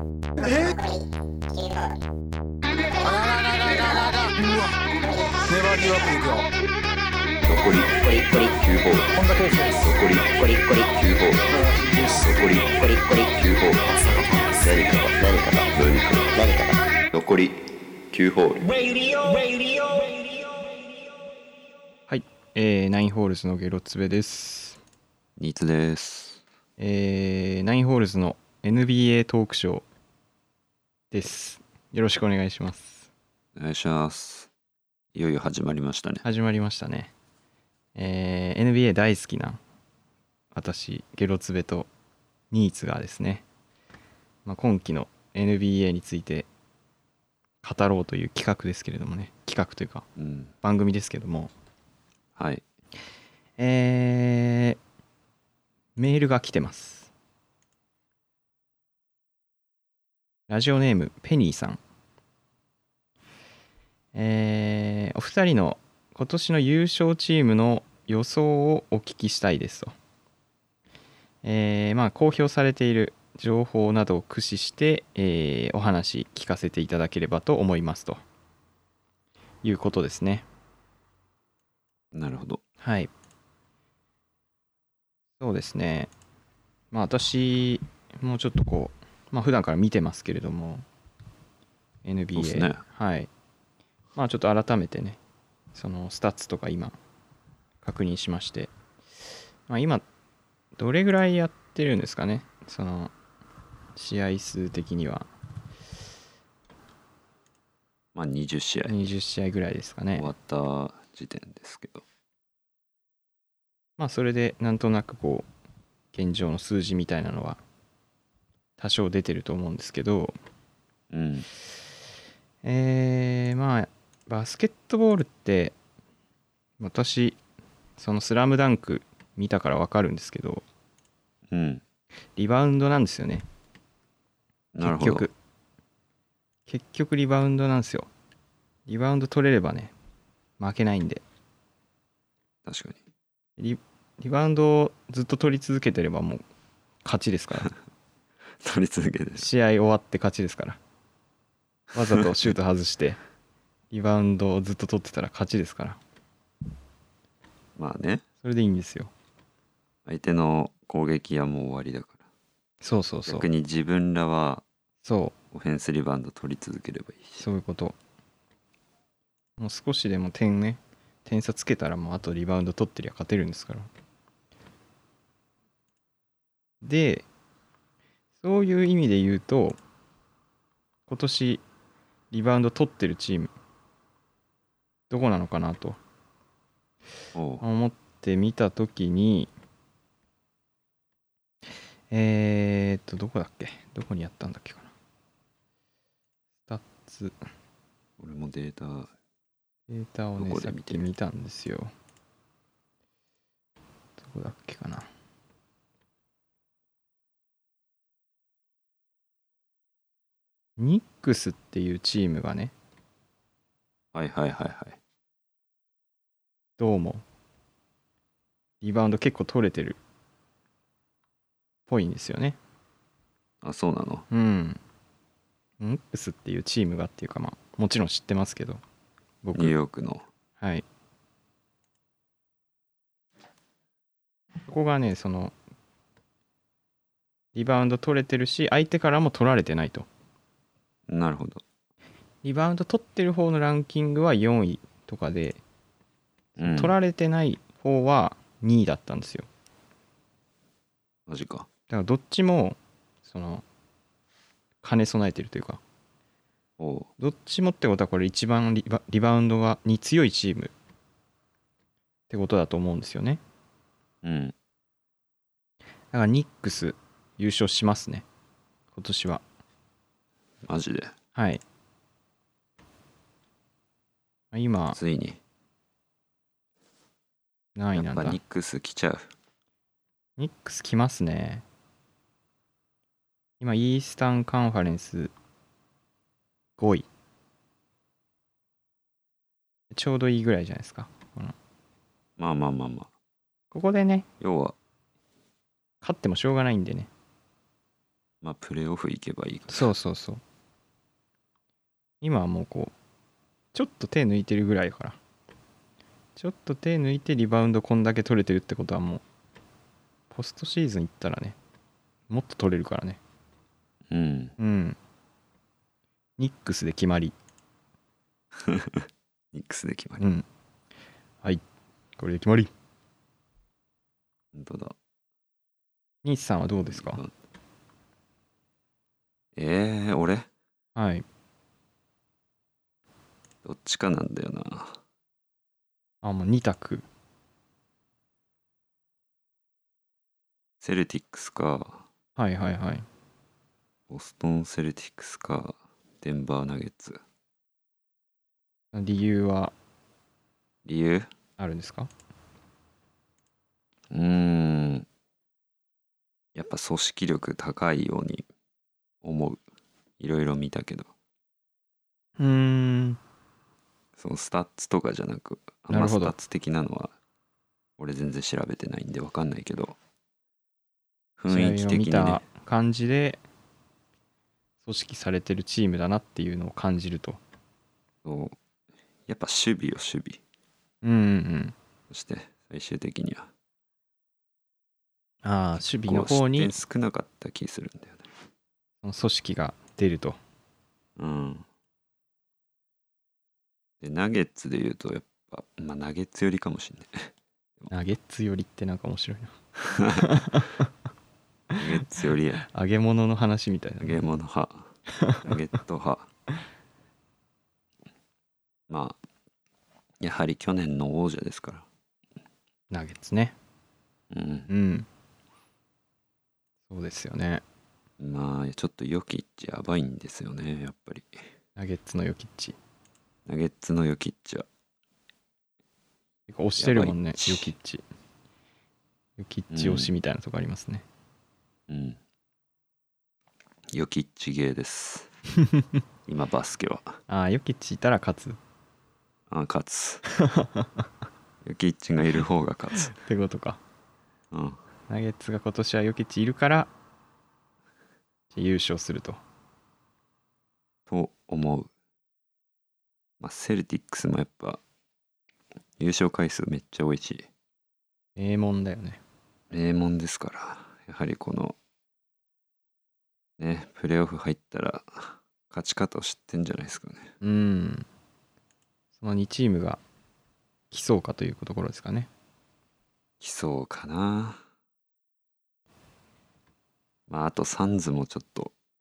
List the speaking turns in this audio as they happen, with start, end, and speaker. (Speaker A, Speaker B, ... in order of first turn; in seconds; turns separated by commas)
Speaker A: 0.4-0.8, Speaker A: 2.7-6.5, Speaker B: 7.5-9.1, Speaker A: 9.1-9.9, Speaker B: 9.8-18.7, Speaker A: 11.5-12.3, Speaker A: 13.8-14.7, Speaker A: 18.6-20.8, Speaker C: 22.1-24.8, Speaker B: 25.4-26.4, Speaker C: 26.8-29.9, Speaker C: 31.1-33.1, Speaker B: 33.6-34.5, Speaker B: 35.1-36.2, Speaker C: 36.2-37.1, Speaker C: 38.0-39.6, Speaker C: 40.5-41.9, Speaker C: 42.5-43.4, Speaker C: 44.5-46.5, Speaker C: 47.6-50.1, Speaker B: 50.2-50.5, Speaker C: 50.6-51.5, Speaker B: 52.4-52.6, Speaker C: 53.6-54.8, Speaker C: 56.0-57.1, Speaker C: 60.5-61.8, Speaker C: 64.2-69.9, Speaker C: 71.4-78.2, Speaker C: 79.6-80.5, Speaker B: 82.1-82.6, Speaker C: 82.8-83.1, Speaker C: 85.4-86.1, Speaker C: 86.9-90.8, Speaker C: 92.0-93.3, Speaker B: 92.3-92.8, Speaker C: 94.2-95.2, Speaker C: 95.7-97.0, Speaker C: 97.8-98.7, Speaker C: 99.7-100.0, Speaker C: 100.8-103.1, Speaker C: 104.0-105.3, Speaker B: 108.1-109.0, Speaker C: 108.9-110.3, Speaker B: 110.2-112.0, Speaker C: 114.0-115.5, Speaker C: 116.1-117.6, Speaker C: 118.8-120.3, Speaker B: 121.1-121.5, Speaker C: 122.6-125.8, Speaker C: 126.8-127.4, Speaker C: 128.0-130.6, Speaker B: 131.5-131.8, Speaker C: 132.4-133.4, Speaker B: 134.7-135.3, Speaker C: 134.8-135.3, Speaker C: 136.7-138.1, Speaker C: 138.9-139.9, Speaker C: 140.6-141.2, Speaker B: 142.7-143.0, Speaker C: 143.6-146.4, Speaker C: 147.1-147.7, Speaker B: 148.6-149.5, Speaker C: 149.4-150.8, Speaker C: 151.9-153.2, Speaker C: 153.9-156.0, Speaker B: 157.8-158.2, Speaker C: 158.4-159.1, Speaker B: 160.1-162.2, Speaker C: 162.8-163.5, Speaker B: 163.3-164.6, Speaker C: 165.0-165.3, Speaker B: 165.5-167.5, Speaker C: 167.4-168.0, Speaker C: 169.6-173.9, Speaker C: 176.8-177.3, Speaker C: 178.4-179.8, Speaker C: 181.1-181.6, Speaker C: 182.3-183.5, Speaker C: 185.1-186.0, Speaker B: 187.3-187.6, Speaker C: 187.6-189.5, Speaker C: 192.1-194.9, Speaker C: 196.7-197.4, Speaker B: 198.2-199.1, Speaker C: 199.9-201.9, Speaker B: 200.4-201.1, Speaker C: 204.2-205.1, Speaker C: 210.8-212.7, Speaker B: 214.1-215.0, Speaker C: 216.8-217.2, Speaker C: 218.8-220.0, Speaker C: 221.9-222.6, Speaker B: 223.6-224.3, Speaker C: 224.3-224.8, Speaker C: 225.8-228.8, Speaker C: 229.4-229.7, Speaker B: 229.6-230.2, Speaker C: 234.7-235.5, Speaker C: 237.6-240.1, Speaker B: 241.1-241.6, Speaker C: 242.4-245.6, Speaker C: 246.6-249.5, Speaker B: 246.6-247.0, Speaker B: 251.3-251.7, Speaker C: 251.9-253.6, Speaker C: 254.8-255.8, Speaker B: 256.8-257.1, Speaker C: 257.2-260.7, Speaker C: 262.3-263.4, Speaker B: 264.2-264.6, Speaker C: 266.1-268.3, Speaker C: 268.9-269.4, Speaker B: 270.6-271.1, Speaker C: 271.4-271.6, Speaker C: 274.5-275.0, Speaker B: 274.9-275.4, Speaker C: 277.8-278.4, Speaker B: 277.9-279.3, Speaker C: 280.4-281.6, Speaker C: 283.6-285.3, Speaker C: 286.8-287.1, Speaker C: 289.9-291.6, Speaker B: 292.4-293.1, Speaker C: 293.7-294.3, Speaker B: 294.4-294.8, Speaker C: 296.0-297.1, Speaker B: 298.4-299.9, Speaker C: 299.7-300.4, Speaker C: 302.2-302.9, Speaker C: 303.7-305.2, Speaker C: 306.4-309.2, Speaker C: 310.3-311.6, Speaker C: 312.3-313.2, Speaker B: 314.1-314.5, Speaker C: 314.6-315.0, Speaker C: 316.4-317.4, Speaker B: 318.6-320.2, Speaker C: 320.2-320.4, Speaker C: 322.2-322.7, Speaker B: 324.5-325.0, Speaker C: 326.2-327.2, Speaker B: 326.9-327.3, Speaker B: 329.6-330.5, Speaker C: 330.9-331.2, Speaker B: 333.6-335.0, Speaker C: 336.2-337.1, Speaker B: 340.8-342.1, Speaker C: 342.4-343.1, Speaker B: 344.1-347.2, Speaker C: 348.9-349.7, Speaker B: 350.9-351.3, Speaker C: 351.6-352.1, Speaker B: 354.1-355.1, Speaker B: 356.6-358.5, Speaker B: 359.2-359.6, Speaker B: 360.2-361.1, Speaker C: 362.4-363.2, Speaker B: 364.2-367.1, Speaker C: 365.9-366.4, Speaker B: 368.0-370.0, Speaker B: 371.4-372.4, Speaker C: 371.5-373.4, Speaker C: 374.8-377.4, Speaker B: 378.2-378.6, Speaker B: 379.3-380.4, Speaker C: 381.0-381.8, Speaker B: 382.1-383.5, Speaker C: 385.4-386.8, Speaker B: 386.1-388.3, Speaker C: 389.0-390.4, Speaker B: 391.2-391.6, Speaker B: 394.0-397.9, Speaker C: 397.9-400.8, Speaker B: 399.9-400.2, Speaker B: 401.8-402.6, Speaker C: 402.6-404.2, Speaker B: 404.0-404.9, Speaker C: 405.2-405.5, Speaker B: 405.4-406.3, Speaker B: 408.9-409.2, Speaker B: 410.2-411.9, Speaker C: 412.9-413.6, Speaker B: 414.3-414.7, Speaker C: 414.7-415.1, Speaker C: 416.9-417.6, Speaker B: 418.2-421.4, Speaker C: 421.8-422.8, Speaker B: 423.5-424.7, Speaker C: 426.5-428.0, Speaker B: 426.8-427.7, Speaker C: 429.4-431.1, Speaker B: 429.7-430.1, Speaker B: 431.9-432.2, Speaker B: 433.9-435.3, Speaker B: 436.3-437.2, Speaker C: 437.3-438.6, Speaker B: 439.5-440.2, Speaker C: 440.4-441.0, Speaker B: 441.6-443.1, Speaker C: 443.1-443.8, Speaker B: 444.5-444.8, Speaker C: 445.1-446.9, Speaker C: 448.5-449.4, Speaker B: 451.1-451.9, Speaker B: 453.4-454.8, Speaker B: 456.0-457.5, Speaker C: 458.4-459.2, Speaker B: 459.7-461.8, Speaker B: 463.6-467.3, Speaker C: 467.4-468.1, Speaker C: 469.2-470.0, Speaker C: 470.9-472.3, Speaker B: 473.4-474.6, Speaker B: 477.3-478.7